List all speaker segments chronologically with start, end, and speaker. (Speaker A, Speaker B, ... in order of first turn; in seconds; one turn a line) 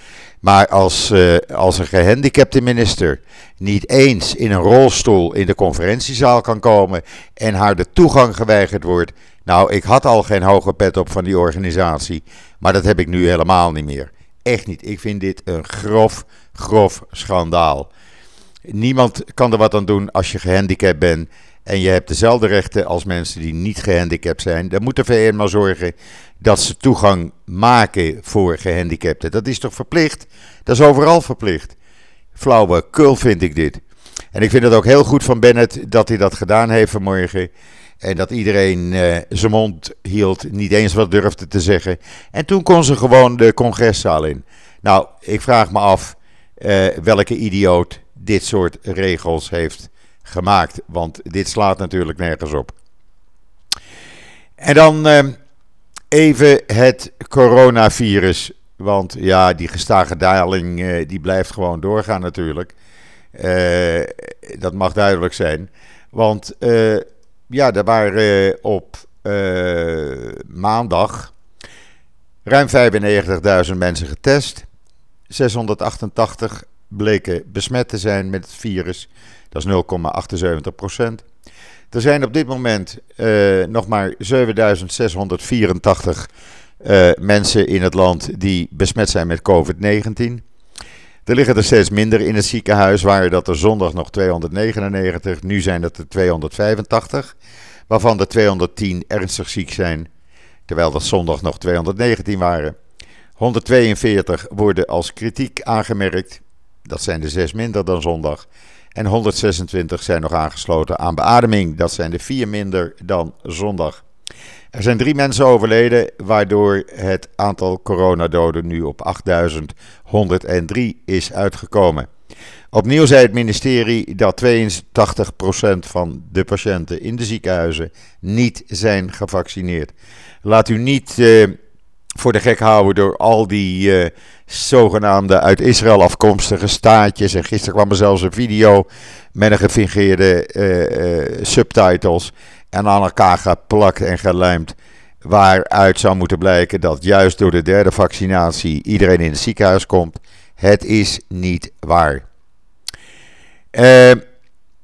Speaker A: 0.4-17.9
Speaker A: 18.6-31.8
Speaker A: 32.3-33.8
Speaker A: 34.3-37.5
Speaker A: 38.0-52.7
Speaker A: 54.6-55.4
Speaker A: 56.1-62.7
Speaker A: 63.3-71.3
Speaker A: 72.5-74.7
Speaker A: 75.3-81.2
Speaker A: 81.9-86.3
Speaker A: 86.8-90.4
Speaker A: 91.2-97.3
Speaker A: 97.9-100.1
Speaker A: 100.7-102.8
Speaker A: 103.4-114.0
Speaker A: 114.7-122.1
Speaker A: 122.7-131.6
Speaker A: 132.2-152.2
Speaker A: 153.7-154.2